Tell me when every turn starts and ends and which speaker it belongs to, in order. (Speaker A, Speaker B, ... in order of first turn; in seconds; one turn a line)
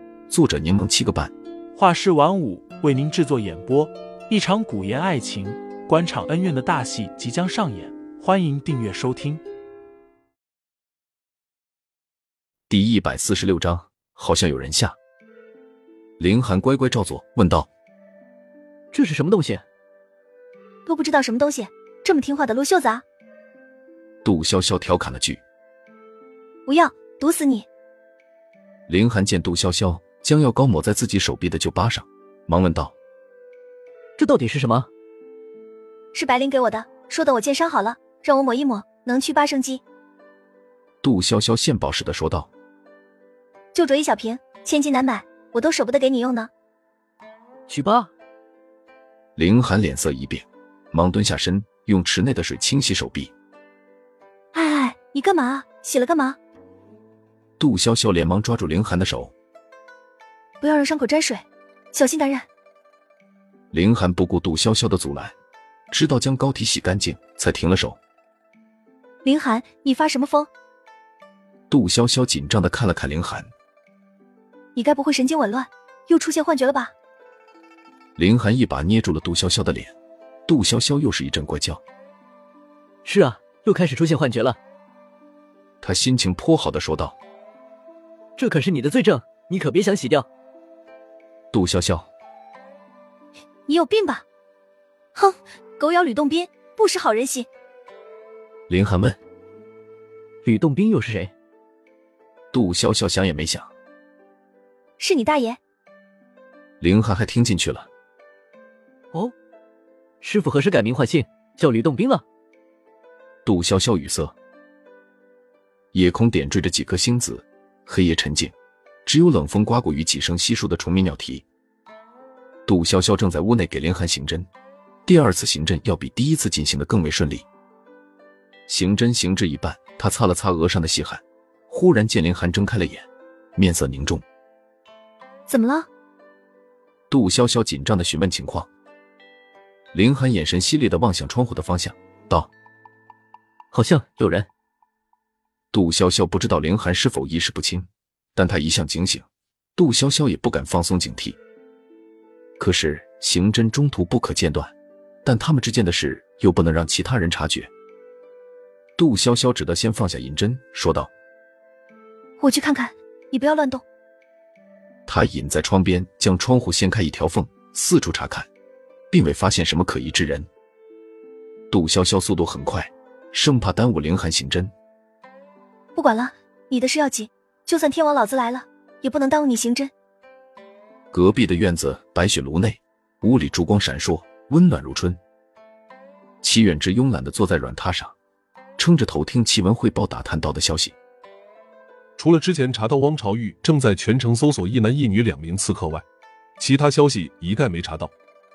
Speaker A: 0.3-1.3
Speaker B: 1.8-9.4
Speaker A: 12.7-15.0
Speaker A: 16.2-17.7
Speaker C: 18.9-19.6
Speaker D: 20.9-23.0
Speaker A: 24.2-25.4
Speaker D: 26.7-27.7
Speaker A: 28.9-33.0
Speaker C: 34.2-34.9
Speaker D: 36.1-39.8
Speaker A: 41.0-42.5
Speaker D: 43.7-46.5
Speaker C: 47.7-48.1
Speaker A: 49.4-53.3
Speaker D: 54.5-56.4
Speaker A: 57.6-59.3
Speaker D: 60.6-62.5
Speaker A: 63.7-65.3
Speaker A: 65.9-68.0
Speaker D: 69.2-70.5
Speaker A: 71.7-73.5
Speaker D: 74.8-76.9
Speaker A: 78.2-79.9
Speaker A: 80.5-81.8
Speaker C: 83.0-84.6
Speaker A: 85.8-87.2
Speaker C: 88.4-90.3
Speaker A: 91.5-92.1
Speaker D: 93.7-94.2
Speaker D: 95.2-97.5
Speaker A: 98.7-99.2
Speaker C: 100.4-101.3
Speaker A: 102.5-103.7
Speaker D: 105.0-105.6
Speaker A: 106.8-107.9
Speaker C: 110.2-112.2
Speaker A: 113.5-114.3
Speaker A: 115.9-118.5
Speaker A: 119.1-121.5
Speaker A: 122.7-124.5
Speaker A: 125.1-127.5
Speaker A: 128.7-134.2
Speaker D: 135.5-135.9
Speaker A: 137.1-138.7
Speaker A: 139.9-142.5
Speaker C: 143.7-144.5
Speaker A: 145.7-151.4
Speaker A: 152.6-154.7
Speaker A: 155.2-157.7
Speaker A: 159.0-161.1
Speaker D: 162.4-163.8
Speaker A: 165.1-168.5
Speaker A: 169.1-170.5
Speaker A: 171.7-174.7
Speaker D: 175.9-179.9
Speaker A: 181.1-185.2
Speaker A: 186.4-188.1
Speaker A: 188.8-190.9
Speaker E: 192.2-196.0
Speaker E: 196.6-198.1